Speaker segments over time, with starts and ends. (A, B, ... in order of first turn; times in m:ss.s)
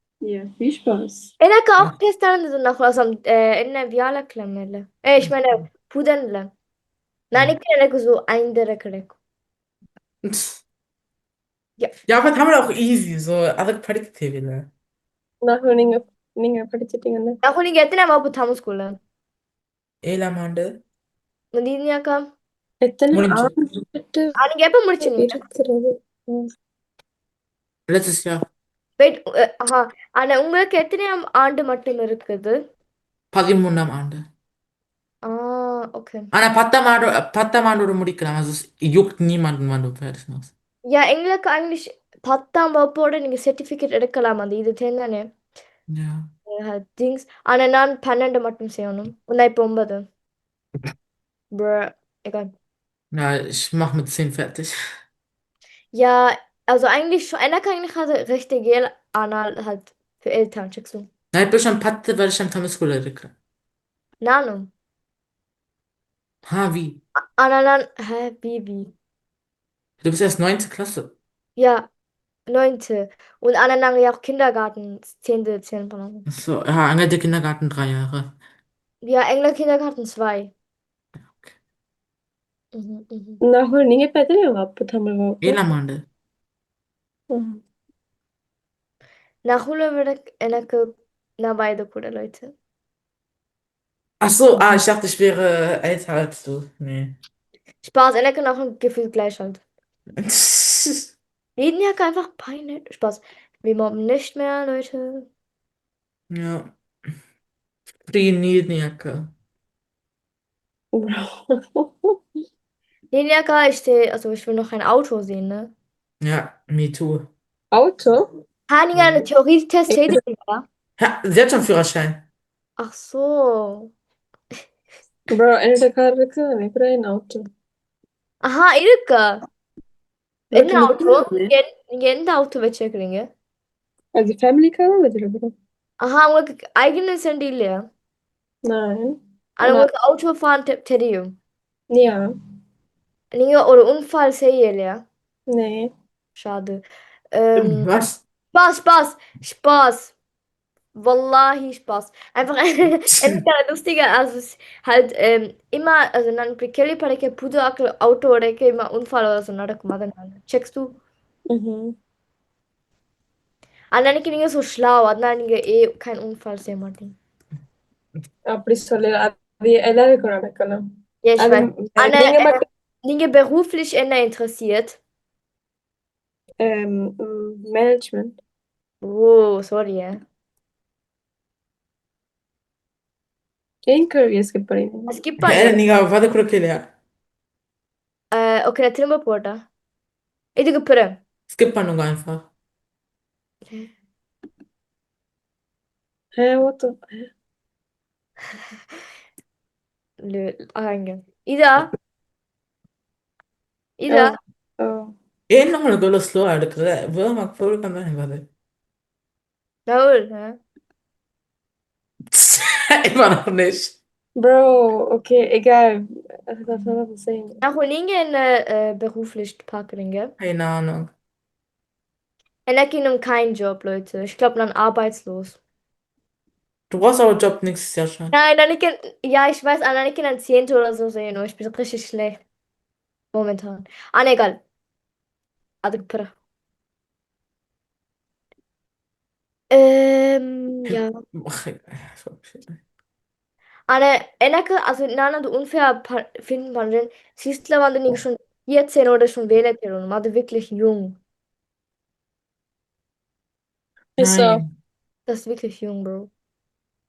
0:00.2-0:01.3 A
0:01.4-0:06.5 B
0:07.3-0:09.1 B
0:10.2-0:10.6 C
0:12.1-0:14.7 C
0:15.4-0:17.4 A
0:17.4-0:19.0 B
0:20.0-0:20.7 C
0:21.6-0:22.2 B
0:22.8-0:24.3 A
0:23.1-0:23.5 C
0:24.4-0:25.4 B
0:25.0-0:26.5 A
0:27.9-0:28.4 C
0:29.0-0:32.6 B
0:33.3-0:34.2 C
0:35.2-0:36.3 B
0:36.3-0:40.5 C
0:40.9-0:45.3 B
0:45.9-0:46.3 C
0:46.5-0:50.1 B
0:51.5-0:52.5 B
0:53.1-0:54.7 C
0:55.9-1:01.1 B
1:01.3-1:03.3 C
1:04.2-1:04.7 B
1:06.5-1:07.0 C
1:07.4-1:08.9 B
1:10.0-1:11.1 C
1:11.6-1:11.9 B
1:12.5-1:16.3 B
1:16.3-1:18.3 C
1:19.0-1:20.5 B
1:22.7-1:23.4 B
1:23.5-1:25.6 A
1:25.4-1:26.0 C
1:27.3-1:27.6 A
1:29.4-1:30.9 B
1:31.4-1:32.5 B
1:34.2-1:37.2 C
1:37.8-1:39.6 B
1:40.3-1:40.9 C
1:41.6-1:45.2 B
1:46.3-1:46.7 C
1:48.1-1:49.3 C
1:50.9-1:52.1 A
1:53.1-1:55.7 B
1:56.2-1:57.3 C
1:57.7-1:58.3 A
1:58.7-2:00.6 B
1:59.9-2:00.2 A
2:01.0-2:02.2 C
2:02.8-2:03.9 B
2:05.3-2:07.5 A
2:08.4-2:09.4 B
2:10.5-2:11.5 A
2:10.5-2:13.2 B
2:14.2-2:15.5 A
2:16.0-2:17.8 B
2:18.7-2:19.9 A
2:19.6-2:21.3 B
2:21.9-2:22.2 A
2:23.3-2:25.0 B
2:25.5-2:25.9 A
2:26.4-2:26.8 B
2:27.3-2:27.9 B
2:27.6-2:28.2 C
2:28.5-2:30.1 B
2:31.0-2:40.9 B
2:33.2-2:33.4 C
2:41.5-2:42.0 A
2:43.9-2:47.2 B
2:48.5-2:50.8 A
2:51.2-2:55.0 B
2:51.4-2:52.6 A
2:56.6-2:58.4 A
2:59.0-3:00.2 B
3:03.9-3:05.1 A
3:05.1-3:05.8 B
3:05.4-3:06.8 C
3:08.3-3:09.6 B
3:10.6-3:11.2 B
3:11.5-3:12.5 C
3:16.4-3:17.3 A
3:20.2-3:21.9 B
3:24.0-3:24.2 B
3:24.1-3:25.1 A
3:25.5-3:28.5 C
3:29.9-3:30.6 B
3:32.3-3:34.0 C
3:34.4-3:37.6 A
3:37.6-3:40.3 B
3:40.4-3:41.1 C
3:42.7-3:45.6 B
3:46.9-3:48.3 C
3:48.3-3:52.4 B
3:53.3-3:54.6 B
3:55.8-3:56.3 B
3:59.7-4:01.1 B
4:00.9-4:02.8 C
4:03.9-4:11.2 B
4:14.2-4:14.6 A
4:14.2-4:14.7 C
4:15.3-4:16.3 B